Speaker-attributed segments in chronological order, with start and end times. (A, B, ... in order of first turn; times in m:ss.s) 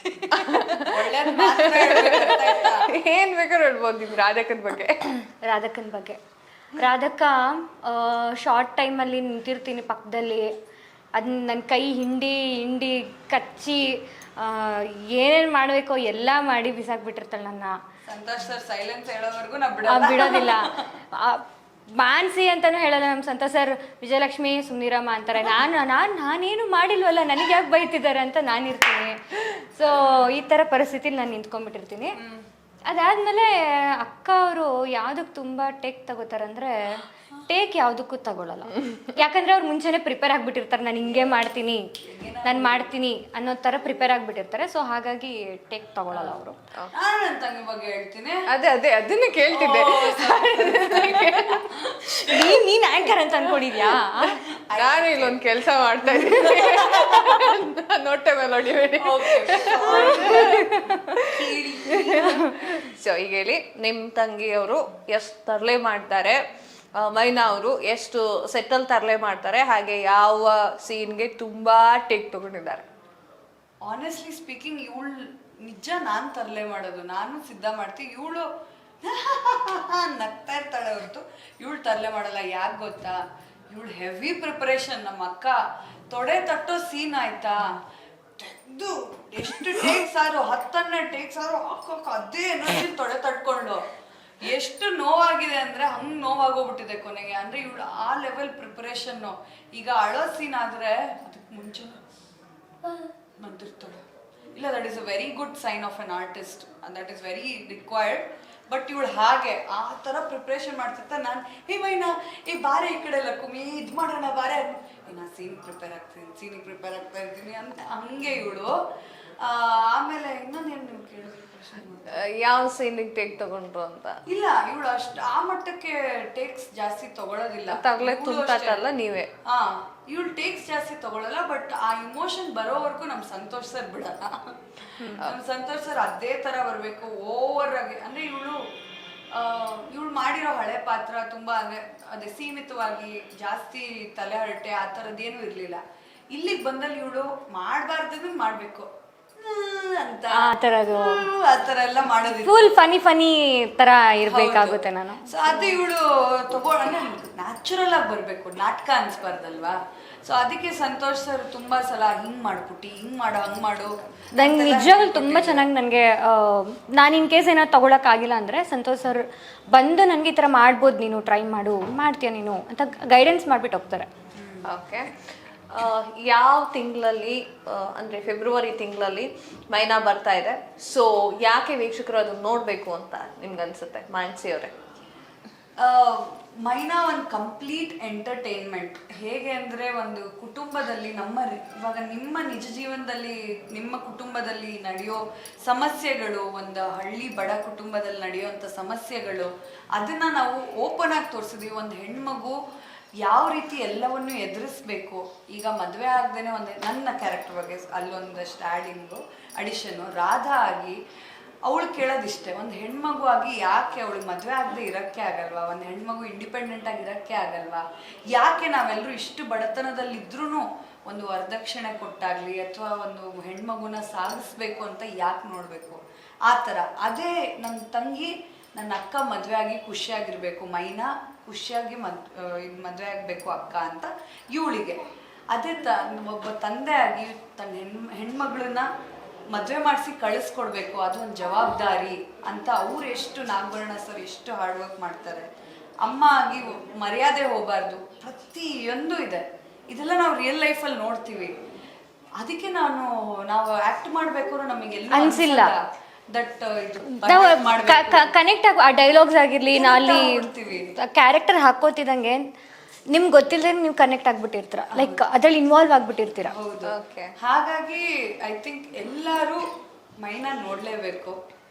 0:00.2-0:05.1 A
0:00.8-0:02.9 B
0:05.4-0:06.2 C
0:06.8-0:10.5 C
0:11.2-0:13.8 C
0:14.4-0:17.7 C
0:18.1-0:20.9 B
0:19.8-0:21.4 C
0:22.0-0:32.2 C
0:32.8-0:41.8 C
0:42.0-0:42.9 B
0:42.4-0:46.6 C
0:46.9-0:48.4 B
0:48.5-0:51.7 A
0:49.5-0:52.6 B
0:52.0-0:54.4 C
0:53.9-0:57.4 B
0:54.8-1:01.3 A
0:59.0-1:02.8 B
0:59.6-1:01.2 C
1:01.9-1:06.4 A
1:07.0-1:12.9 A
1:13.8-1:18.5 B
1:19.0-1:27.6 B
1:28.4-1:33.9 B
1:34.4-1:42.0 B
1:43.4-1:58.7 B
1:59.4-2:02.2 B
2:02.1-2:04.2 A
2:04.3-2:08.8 B
2:07.7-2:09.3 A
2:09.4-2:18.6 B
2:15.0-2:15.2 C
2:19.3-2:32.7 B
2:30.3-2:31.2 C
2:32.4-2:35.8 C
2:34.2-2:45.6 B
2:44.3-2:54.1 C
2:54.3-2:54.7 B
2:54.6-2:55.1 A
2:55.7-3:04.7 A
3:05.8-3:22.6 B
3:23.2-3:31.0 B
3:31.6-3:58.9 B
3:59.5-4:05.5 B
4:06.0-4:11.5 B
4:12.4-4:15.8 B
4:15.1-4:15.7 C
4:16.3-4:18.3 B
4:17.2-4:22.4 C
4:19.7-4:20.9 B
4:23.1-4:26.5 C
4:24.9-4:25.2 B
4:26.4-4:29.6 B
4:26.8-4:27.3 A
4:30.2-4:31.4 B